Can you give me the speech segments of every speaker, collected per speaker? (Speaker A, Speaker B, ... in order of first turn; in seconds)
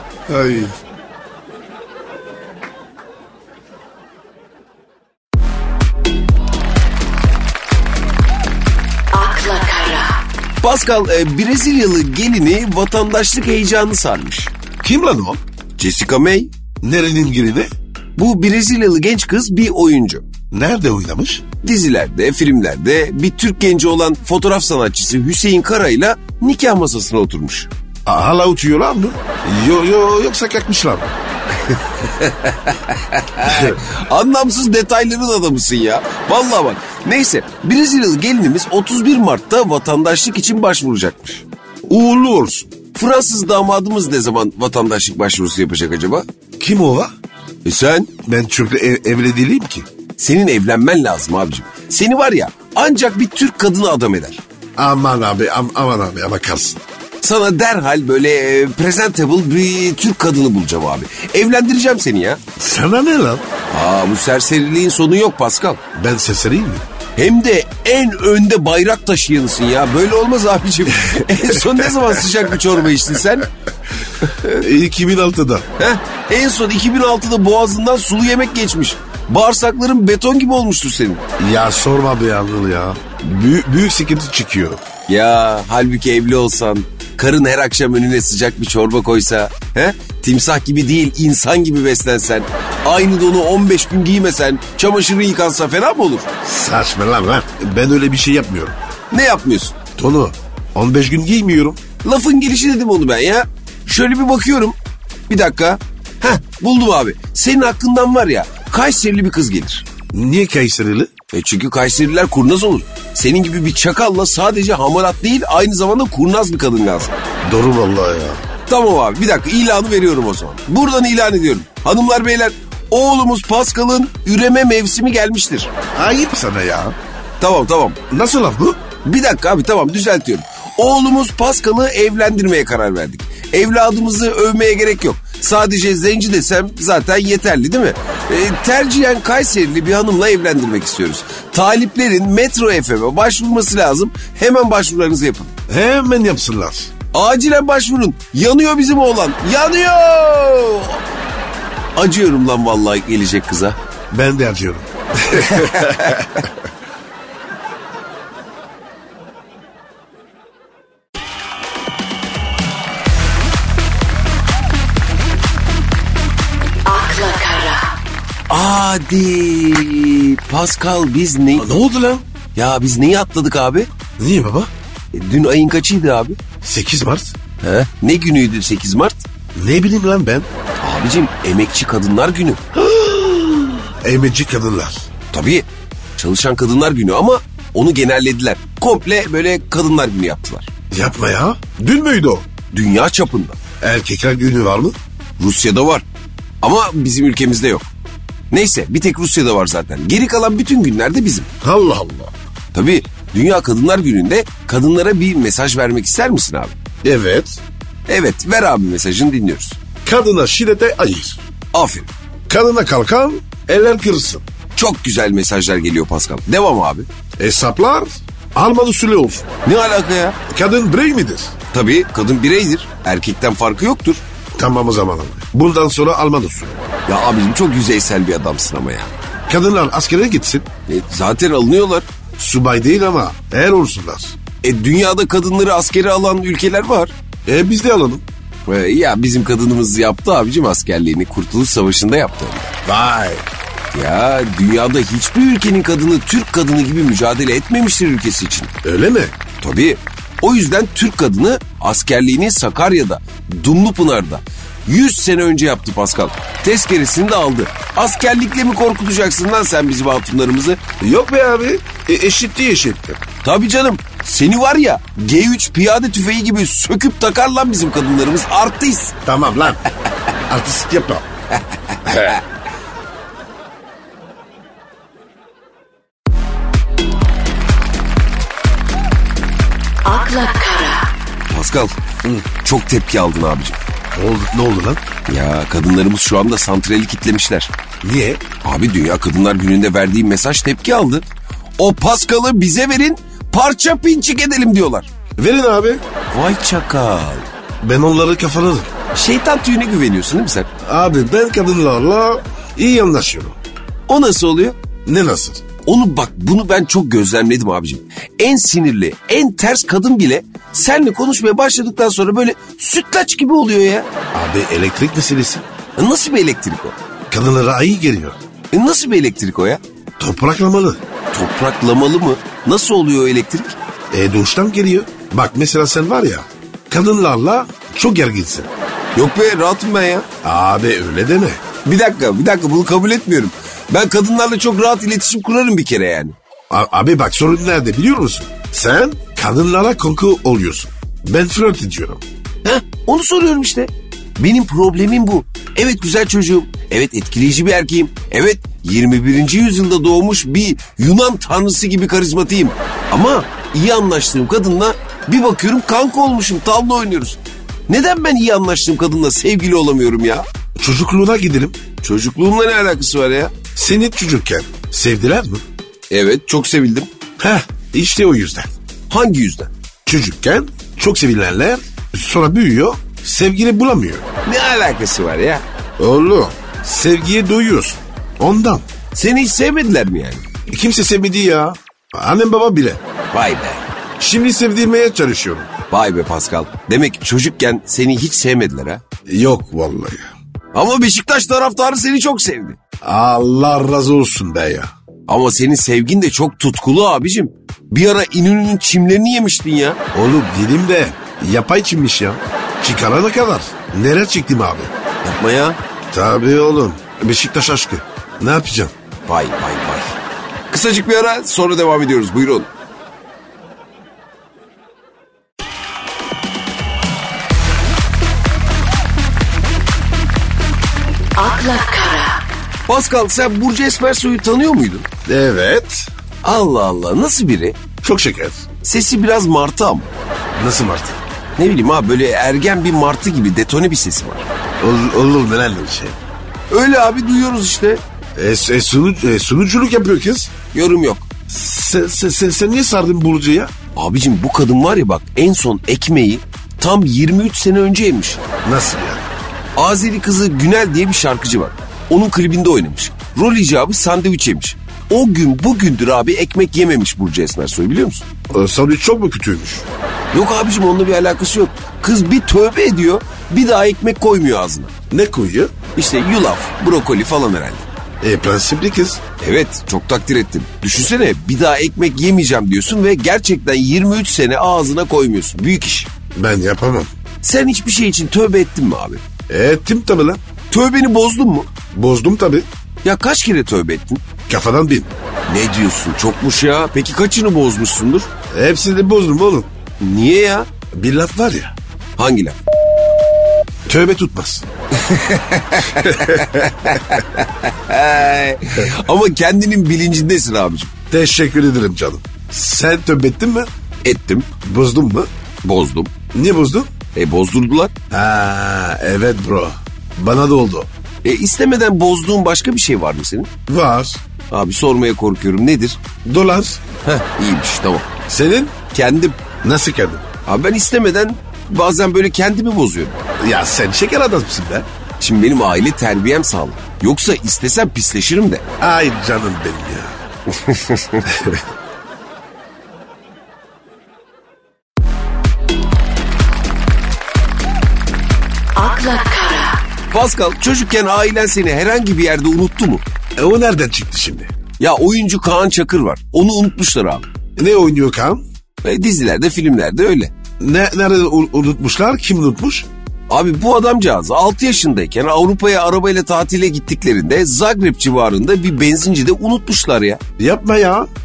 Speaker A: 0.3-0.7, 14.8-15.4, 16.8-17.7, 20.5-21.4, 28.1-31.1, 33.4-33.8, 41.9-42.7, 46.6-47.1, 48.3-49.9, 54.8-56.8, 62.6-63.4, 66.0-66.8, 71.0-72.4, 74.5-75.7, 81.4-84.8, 96.4-98.8, 100.0-101.8, 110.1-111.1, 117.4-118.4, 125.9-127.0, 128.1-128.8, 145.7-146.9, 154.1-156.5, 171.6-172.3, 174.2-174.7, 176.6-177.3, 179.6-180.5, 182.7-185.1, 190.9-192.5, 193.8-194.9, 201.6-202.3, 207.0-207.6, 210.0-211.4, 212.5-214.4, 217.4-219.5, 220.5-221.6, 224.6-226.8, 229.5-230.7, 232.4-234.4, 237.5-238.2, 242.8-243.5, 248.8-249.3, 261.0-263.2, 269.2-269.8, 270.5-271.3, 272.1-272.4, 284.1-285.0, 288.0-288.4, 295.4-296.0, 297.8-298.9, 300.9-303.6, 305.1-305.6, 314.3-315.7, 317.3-318.4, 320.2-321.0, 324.1-328.7, 330.4-331.6, 336.7-342.2, 360.8-361.8, 363.8-365.6, 367.4-368.7, 370.1-374.3, 376.0-378.8, 380.7-383.0, 384.2-385.7, 389.3-390.3, 393.0-394.9, 400.1-404.9, 406.1-408.9, 425.3-426.1, 428.0-428.6, 430.6-431.2, 434.8-436.2, 438.4-440.5, 441.5-443.7, 448.6-449.3, 458.5-459.9, 465.1-465.7, 468.2-469.2, 476.4-477.1, 479.5-480.4, 481.9-482.7, 484.5-485.1, 488.5-489.7, 490.9-491.7, 493.9-494.7, 496.0-496.8, 501.1-503.7, 504.6-505.3, 506.3-506.9, 508.1-510.9, 513.7-514.2, 516.2-516.8, 518.3-518.8, 519.6-520.2, 523.4-524.9, 528.8-530.2, 531.2-531.6, 543.4-544.5, 547.6-548.4, 550.6-552.9, 560.4-561.1
Speaker B: 9.1-10.1, 166.9-167.8, 280.1-281.0, 421.4-422.4, 538.8-539.8
Speaker C: 10.6-14.5, 15.8-16.5, 18.2-20.2, 21.6-27.7, 31.6-41.5, 42.9-46.2, 47.6-48.1, 50.2-54.4, 57.2-62.4, 63.7-65.8, 67.2-73.5, 74.2-74.6, 75.8-81.2, 85.1-96.3, 99.1-99.8, 102.0-104.8, 105.3-109.9, 111.3-117.2, 118.7-125.7, 127.4-128.0, 129.0-145.5, 147.1-151.0, 152.0-153.8, 155.3-156.4, 168.5-171.8, 172.5-173.9, 175.1-176.4, 177.6-179.2, 180.8-182.6, 185.3-190.7, 192.7-193.6, 195.4-196.1, 196.6-197.9, 198.5-201.5, 202.7-206.8, 208.1-209.8, 211.7-212.1, 214.8-217.1, 219.6-220.4, 221.7-224.2, 227.1-229.1, 230.9-232.1, 234.6-237.1, 238.7-242.7, 243.9-248.7, 249.6-260.8, 263.4-269.1, 271.9-272.4, 281.5-281.9, 282.6-283.8, 285.3-287.7, 288.6-291.2, 291.8-295.1, 296.3-297.5, 299.1-300.7, 304.1-304.8, 305.9-314.1, 316.0-317.0, 318.7-319.8, 321.3-323.8, 329.1-330.3, 331.8-336.4, 342.6-360.4, 362.0-363.5, 366.1-367.1, 369.1-369.7, 374.4-375.6, 379.1-380.4, 383.3-383.8, 385.9-389.0, 390.7-392.8, 395.3-400.0, 405.2-405.8, 409.3-410.2, 410.7-412.7, 422.9-425.1, 426.4-427.8, 428.8-430.1, 431.6-434.5, 436.7-438.0, 440.7-441.3, 443.9-448.4, 449.8-458.2, 460.3-464.9, 465.9-467.9, 469.4-476.1, 477.4-479.2, 480.7-481.7, 483.0-484.2, 485.5-488.3, 490.0-490.7, 492.2-492.6, 494.9-500.9, 504.0-504.5, 505.6-506.1, 507.1-507.9, 511.2-513.5, 514.5-516.0, 517.0-518.1, 518.9-519.4, 520.5-523.2, 525.2-528.6, 530.5-531.2, 540.1-543.0, 544.8-547.3, 548.8-550.3, 553.3-560.2